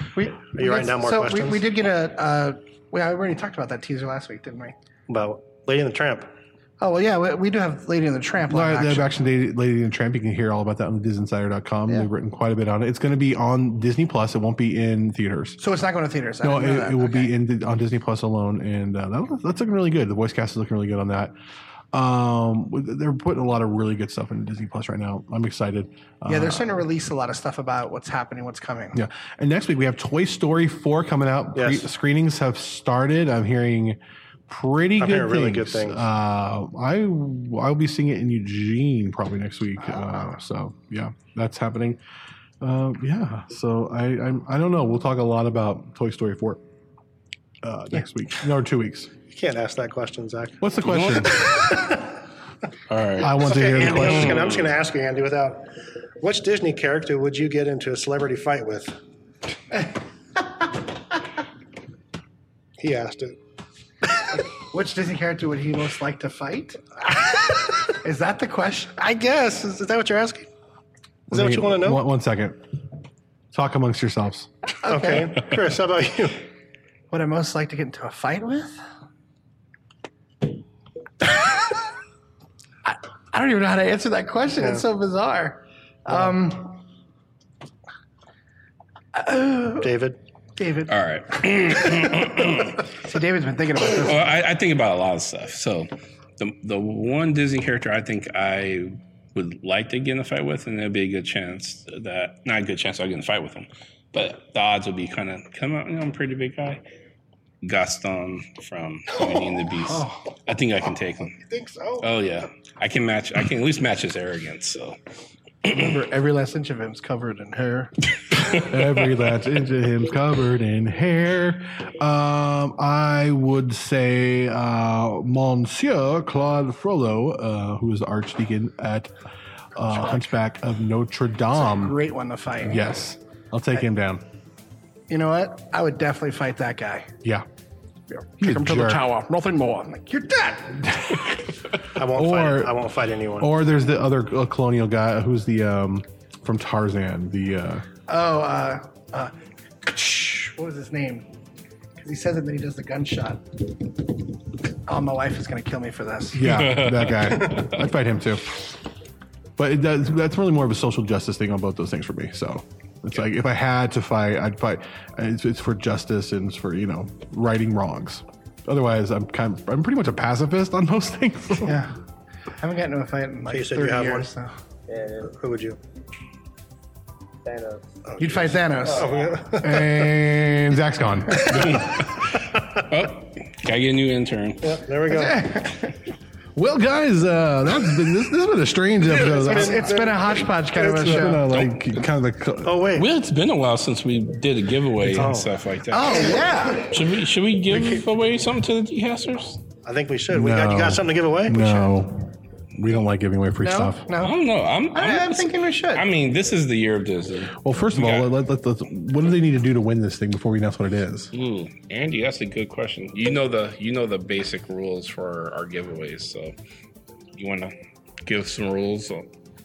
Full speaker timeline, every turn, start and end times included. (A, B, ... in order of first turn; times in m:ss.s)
0:00.1-0:04.7 A
0:00.5-0:01.6 B
0:05.1-0:06.3 B
0:06.8-0:09.1 A
0:08.5-0:15.6 C
0:15.6-0:17.3 A
0:16.4-0:21.4 C
0:21.9-0:26.8 C
0:26.3-0:29.0 A
0:28.9-0:42.0 C
0:31.5-0:31.9 B
0:35.0-0:36.1 B
0:42.6-0:46.6 C
0:47.6-0:49.1 C
0:49.3-0:50.6 B
0:50.6-0:51.5 C
0:50.8-0:51.4 D
0:51.4-0:51.9 B
0:52.9-0:54.7 D
0:53.2-0:54.5 C
0:53.4-0:59.0 B
1:02.8-1:03.4 B
1:04.3-1:09.0 A
1:09.0-1:10.5 B
1:11.3-1:12.6 C
1:11.3-1:12.0 B
1:13.5-1:14.5 C
1:14.8-1:15.4 A
1:14.8-1:16.4 B
1:17.1-1:18.8 A
1:21.3-1:21.5 A
1:22.8-1:26.8 A
1:29.1-1:29.9 A
1:29.8-1:30.2 B
1:30.6-1:30.9 A
1:30.9-1:32.8 D
1:31.6-1:34.3 A
1:34.0-1:46.8 D
1:47.6-1:51.4 D
1:49.9-1:50.2 A
1:51.4-1:52.1 B
1:52.0-1:55.0 D
1:55.6-1:57.9 A
1:58.5-2:09.1 C
2:09.7-2:12.0 C
2:11.5-2:12.8 A
2:12.6-2:14.2 C
2:15.1-2:17.1 A
2:18.1-2:21.0 A
2:18.4-2:19.0 C
2:21.0-2:21.5 C
2:21.9-2:23.5 B
2:22.0-2:22.8 C
2:23.4-2:27.8 C
2:28.1-2:31.3 A
2:32.0-2:33.7 A
2:34.9-2:36.6 A
2:36.3-2:38.7 C
2:36.4-2:37.7 D
2:39.6-2:51.8 C
2:51.6-2:52.0 A
2:52.6-2:54.5 A
2:53.5-2:54.3 B
2:54.9-2:55.8 B
2:57.4-3:00.0 B
2:58.2-2:59.1 A
2:59.6-3:02.0 C
3:01.5-3:04.8 D
3:04.6-3:05.5 B
3:05.1-3:05.9 A
3:06.5-3:10.0 C
3:09.1-3:10.5 B
3:09.2-3:11.4 A
3:10.8-3:12.8 C
3:11.5-3:11.9 D
3:12.6-3:13.1 B
3:12.9-3:19.6 D
3:15.1-3:15.4 B
3:15.2-3:17.0 A
3:19.8-3:21.9 B
3:20.3-3:24.1 C
3:23.6-3:24.4 A
3:24.2-3:28.3 D
3:24.9-3:26.0 A
3:27.6-3:31.3 C
3:31.3-3:36.5 D
3:37.4-3:39.3 D